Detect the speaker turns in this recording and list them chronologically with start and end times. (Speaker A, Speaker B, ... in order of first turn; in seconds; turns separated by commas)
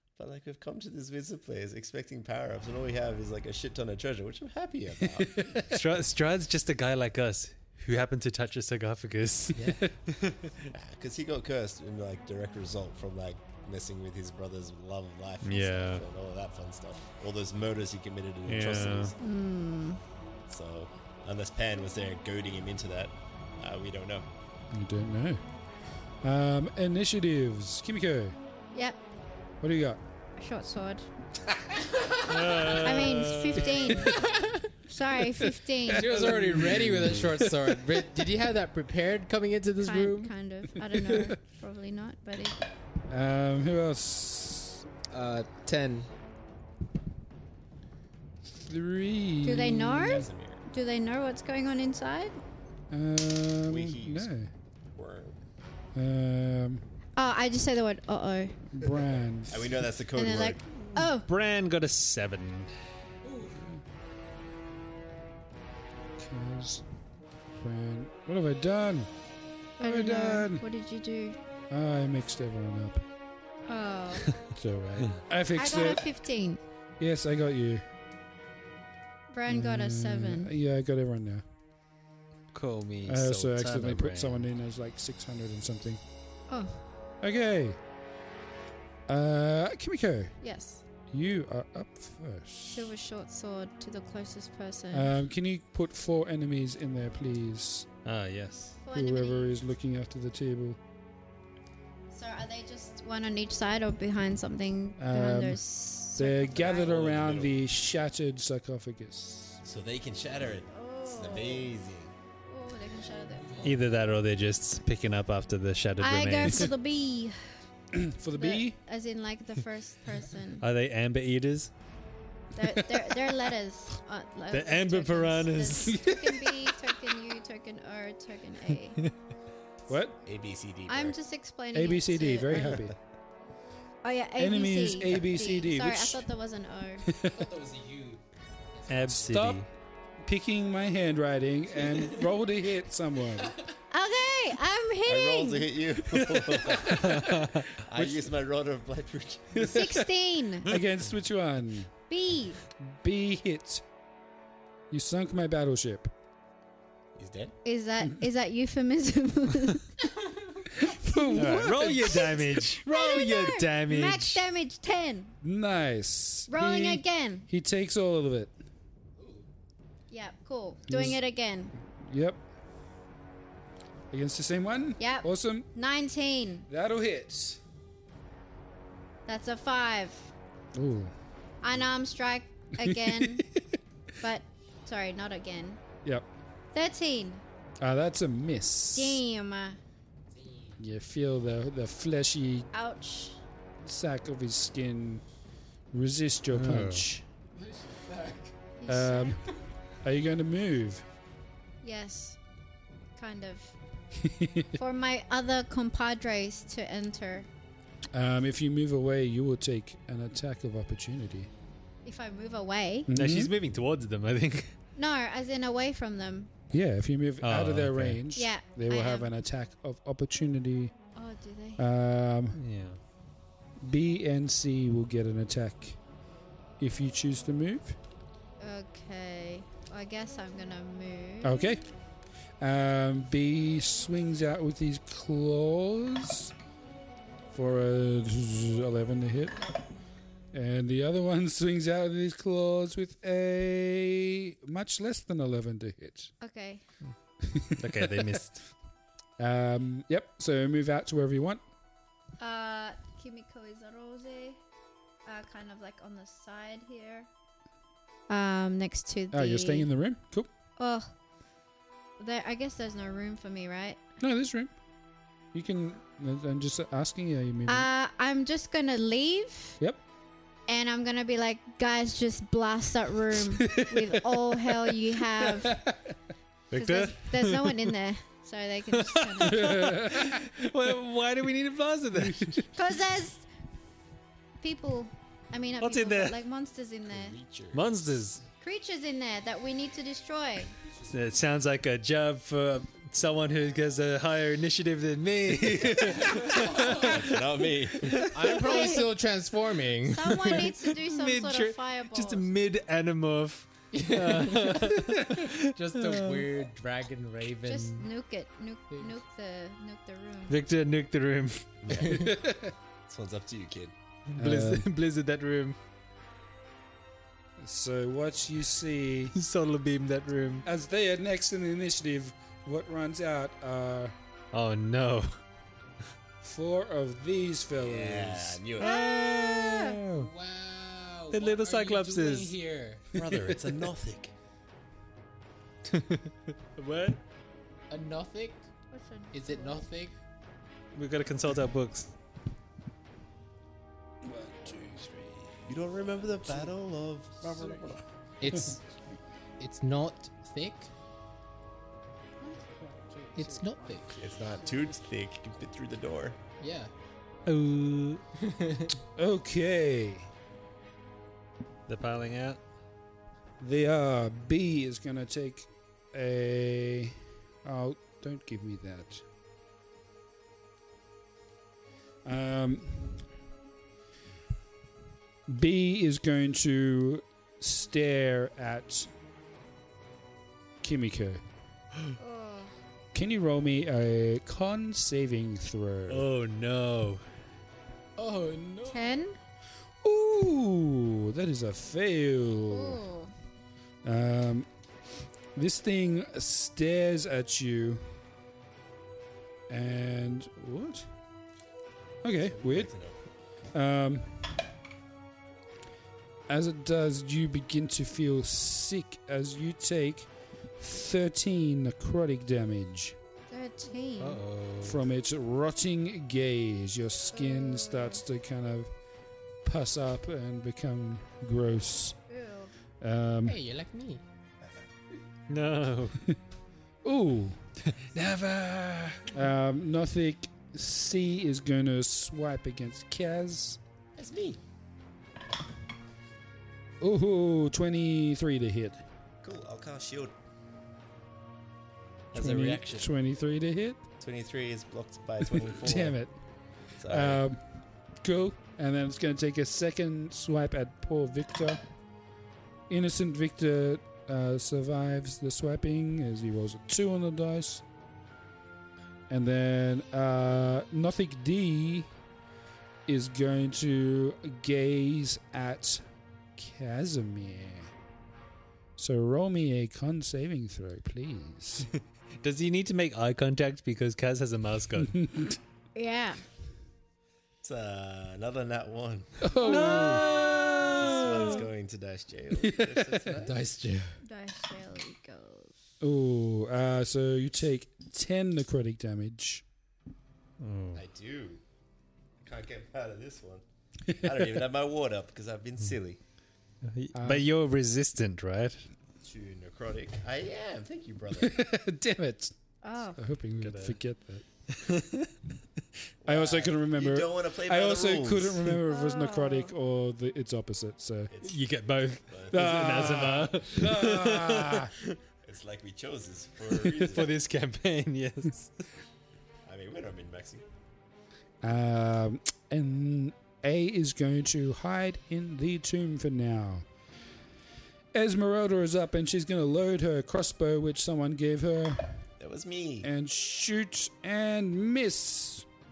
Speaker A: 0.2-5.7, Speaker B: 5.2-5.7, Speaker C: 5.7-10.5, Speaker D: 9.5-9.8, Speaker A: 10.7-19.2, Speaker C: 15.4-16.1, Speaker C: 18.5-19.1, Speaker E: 19.2-20.0, Speaker A: 20.5-24.3, Speaker B: 24.7-25.4, Speaker B: 26.2-28.4, Speaker E: 28.7-29.0, Speaker B: 29.6-30.0, Speaker E: 30.4-31.1, Speaker C: 32.3-34.2, Speaker E: 32.8-36.3, Speaker D: 35.9-40.3, Speaker B: 36.1-37.1, Speaker C: 36.7-37.1, Speaker E: 39.8-42.6, Speaker B: 43.1-44.9, Speaker D: 45.1-46.1, Speaker B: 48.5-50.3, Speaker E: 49.4-52.4, Speaker A: 50.0-50.6, Speaker B: 52.9-54.5, Speaker A: 53.7-54.3, Speaker A: 54.9-55.4, Speaker B: 56.0-56.9, Speaker E: 57.2-58.6, Speaker B: 58.7-59.9, Speaker A: 59.5-60.6, Speaker E: 60.1-61.3, Speaker C: 61.1-62.7, Speaker B: 66.2-66.8, Speaker B: 67.5-69.1, Speaker E: 69.8-71.4, Speaker B: 69.8-70.6, Speaker B: 71.7-73.0, Speaker E: 73.7-74.4, Speaker B: 74.5-76.0, Speaker E: 75.5-76.6, Speaker B: 77.0-77.8, Speaker E: 79.3-80.5, Speaker B: 79.5-81.4, Speaker C: 82.5-84.5, Speaker B: 83.0-86.0, Speaker E: 86.5-86.8, Speaker B: 87.2-87.8, Speaker B: 89.1-90.3, Speaker E: 90.4-90.8, Speaker B: 91.1-92.9, Speaker E: 92.7-95.1, Speaker B: 94.9-97.9, Speaker C: 98.0-98.8, Speaker E: 98.8-99.6, Speaker B: 98.9-100.8, Speaker E: 102.1-107.0, Speaker B: 105.0-105.6, Speaker B: 106.1-109.6, Speaker A: 106.6-107.6, Speaker A: 109.6-112.1, Speaker E: 110.7-111.7, Speaker E: 112.5-113.7, Speaker C: 113.6-116.7, Speaker E: 116.0-117.6, Speaker B: 117.9-118.8, Speaker E: 118.4-120.7, Speaker C: 120.6-121.7, Speaker E: 122.5-129.0, Speaker C: 124.5-126.1, Speaker B: 125.9-126.3, Speaker B: 129.9-130.2, Speaker A: 130.2-131.2, Speaker E: 130.9-132.8, Speaker B: 131.7-132.9, Speaker A: 132.6-132.9, Speaker E: 134.0-137.1, Speaker B: 134.4-136.2, Speaker B: 137.1-137.3, Speaker D: 137.2-139.4, Speaker C: 138.9-139.7, Speaker B: 139.2-139.6, Speaker B: 140.2-143.6, Speaker D: 141.9-142.3, Speaker E: 143.9-145.7, Speaker A: 145.1-149.8, Speaker C: 146.7-147.7, Speaker B: 149.6-150.1, Speaker E: 149.6-150.7, Speaker B: 150.7-151.9, Speaker E: 152.1-152.6, Speaker B: 152.8-153.8, Speaker B: 154.9-156.1, Speaker A: 157.2-157.6, Speaker E: 157.7-159.9, Speaker B: 160.8-162.3, Speaker E: 161.2-165.4, Speaker C: 161.4-164.4, Speaker B: 165.4-168.5, Speaker E: 166.5-167.5, Speaker D: 169.2-169.5, Speaker E: 170.1-171.7, Speaker B: 170.9-171.2, Speaker B: 171.8-172.4, Speaker B: 174.1-175.7, Speaker E: 175.0-176.7, Speaker B: 176.7-177.6, Speaker E: 179.3-180.3, Speaker B: 180.8-181.1, Speaker E: 181.6-183.5, Speaker B: 182.8-183.4, Speaker E: 184.2-185.8, Speaker E: 186.7-187.4, Speaker B: 187.8-189.2, Speaker E: 188.9-189.8, Speaker D: 190.3-190.8, Speaker B: 190.8-192.7, Speaker E: 192.7-193.4, Speaker B: 193.8-195.2, Speaker B: 195.9-197.2, Speaker C: 196.5-197.1, Speaker D: 197.6-198.5, Speaker E: 198.8-199.4, Speaker B: 198.9-199.4, Speaker B: 200.0-201.1, Speaker E: 201.8-202.4, Speaker E: 203.2-203.8, Speaker B: 204.2-204.7, Speaker E: 204.8-207.5, Speaker B: 208.1-211.5, Speaker E: 212.1-213.1, Speaker B: 213.1-213.5, Speaker C: 213.1-214.7, Speaker E: 215.0-216.5, Speaker B: 216.7-220.9, Speaker C: 217.4-218.2, Speaker E: 218.3-219.3, Speaker E: 221.2-221.8, Speaker B: 221.8-222.6, Speaker C: 222.6-223.0, Speaker B: 223.8-226.0, Speaker B: 226.8-228.0, Speaker E: 228.6-231.8, Speaker B: 231.4-231.8, Speaker B: 232.6-236.5, Speaker B: 237.5-239.7, Speaker B: 240.5-246.3, Speaker E: 246.4-246.8, Speaker B: 247.4-248.4, Speaker C: 247.8-248.7, Speaker B: 249.4-251.6, Speaker E: 252.4-254.6, Speaker E: 255.2-257.3, Speaker E: 258.3-259.9, Speaker B: 259.3-260.5, Speaker E: 260.8-261.1, Speaker E: 262.2-264.0, Speaker B: 264.2-264.7, Speaker B: 265.5-267.9, Speaker E: 267.7-269.8, Speaker E: 270.7-275.8, Speaker B: 273.5-274.9, Speaker B: 275.4-276.1, Speaker C: 276.7-277.9, Speaker E: 276.7-280.0, Speaker C: 278.9-282.7, Speaker B: 279.5-280.4, Speaker B: 282.1-282.6, Speaker E: 282.8-283.5, Speaker E: 284.6-287.4, Speaker C: 285.8-286.4, Speaker A: 287.1-288.0, Speaker C: 287.7-288.4, Speaker E: 288.6-290.7, Speaker C: 291.1-298.3, Speaker D: 296.3-297.1, Speaker A: 296.9-298.3, Speaker D: 298.3-300.6, Speaker E: 298.6-299.1, Speaker E: 300.1-302.5, Speaker C: 300.5-306.5, Speaker D: 303.9-308.1, Speaker E: 307.6-310.6, Speaker D: 308.9-309.2, Speaker C: 310.5-311.7, Speaker A: 311.8-312.5, Speaker D: 312.0-312.3, Speaker B: 312.3-312.7, Speaker A: 313.1-313.9, Speaker C: 314.3-315.8, Speaker B: 314.4-314.9, Speaker B: 317.6-319.4, Speaker C: 319.4-320.7, Speaker B: 320.7-324.1, Speaker C: 324.5-325.3, Speaker B: 326.4-328.6, Speaker A: 327.8-328.9, Speaker E: 328.8-330.0, Speaker C: 328.8-330.3, Speaker D: 330.1-333.1, Speaker C: 331.3-332.6, Speaker A: 333.1-334.3, Speaker C: 335.9-337.2, Speaker D: 337.9-338.7, Speaker E: 338.9-339.9, Speaker D: 339.3-340.1, Speaker C: 340.9-342.1, Speaker B: 344.2-346.7, Speaker A: 345.7-348.0, Speaker D: 348.4-348.8, Speaker D: 349.6-350.9, Speaker B: 352.4-354.7, Speaker D: 353.3-354.2, Speaker A: 354.2-356.4, Speaker D: 356.6-356.9, Speaker C: 357.5-358.2, Speaker D: 358.4-359.0, Speaker B: 359.2-360.3, Speaker C: 361.9-362.6, Speaker B: 363.6-369.2, Speaker B: 372.2-373.3, Speaker B: 375.5-379.1, Speaker B: 380.8-381.4, Speaker E: 382.2-382.8, Speaker B: 383.1-386.3, Speaker C: 386.1-387.2, Speaker D: 388.2-389.2, Speaker E: 388.9-389.4, Speaker B: 390.0-393.0, Speaker E: 392.7-393.3, Speaker B: 394.0-394.7, Speaker B: 395.6-398.1, Speaker B: 399.7-401.1, Speaker B: 402.2-403.0, Speaker A: 402.4-403.2, Speaker B: 403.7-404.6, Speaker B: 406.5-413.2, Speaker E: 413.5-414.4, Speaker D: 414.2-414.9, Speaker B: 414.8-418.9, Speaker E: 417.3-418.2, Speaker B: 419.6-422.2, Speaker E: 422.3-422.7, Speaker B: 423.0-423.6, Speaker D: 423.4-424.2, Speaker C: 425.5-426.2, Speaker B: 427.0-427.6, Speaker C: 427.9-429.4, Speaker B: 429.3-433.8, Speaker A: 434.2-434.6, Speaker B: 437.0-439.0, Speaker A: 439.4-440.3, Speaker A: 442.3-443.1, Speaker B: 442.3-444.0, Speaker A: 444.2-446.2, Speaker B: 445.5-446.4, Speaker A: 447.0-447.4, Speaker B: 447.1-447.6, Speaker B: 448.2-451.8, Speaker B: 452.9-457.8, Speaker B: 459.3-462.1, Speaker B: 463.1-466.1, Speaker B: 466.6-467.9, Speaker B: 469.0-471.9, Speaker C: 472.4-475.2, Speaker B: 475.0-475.6, Speaker E: 475.9-476.4, Speaker A: 477.6-479.4, Speaker B: 479.4-480.3, Speaker C: 479.6-481.6, Speaker A: 481.0-483.6, Speaker B: 482.6-483.3, Speaker D: 483.4-484.2, Speaker E: 484.2-485.7, Speaker B: 486.0-489.6, Speaker C: 490.6-491.0, Speaker A: 490.9-491.6, Speaker A: 492.4-493.6, Speaker A: 494.2-496.2, Speaker C: 496.9-498.9, Speaker B: 497.1-497.5, Speaker A: 499.2-501.6, Speaker B: 501.4-502.6, Speaker E: 502.8-503.2, Speaker B: 503.1-504.4, Speaker C: 503.6-504.0, Speaker C: 504.7-505.3, Speaker A: 506.2-508.7, Speaker B: 506.2-511.3, Speaker E: 508.9-509.7, Speaker A: 511.3-511.7, Speaker C: 511.4-515.1, Speaker A: 512.3-513.3, Speaker B: 512.5-514.9, Speaker A: 515.4-517.4, Speaker C: 516.8-518.7, Speaker A: 519.6-520.7, Speaker B: 521.6-526.9, Speaker B: 528.1-532.2, Speaker A: 532.4-533.1, Speaker B: 533.0-535.7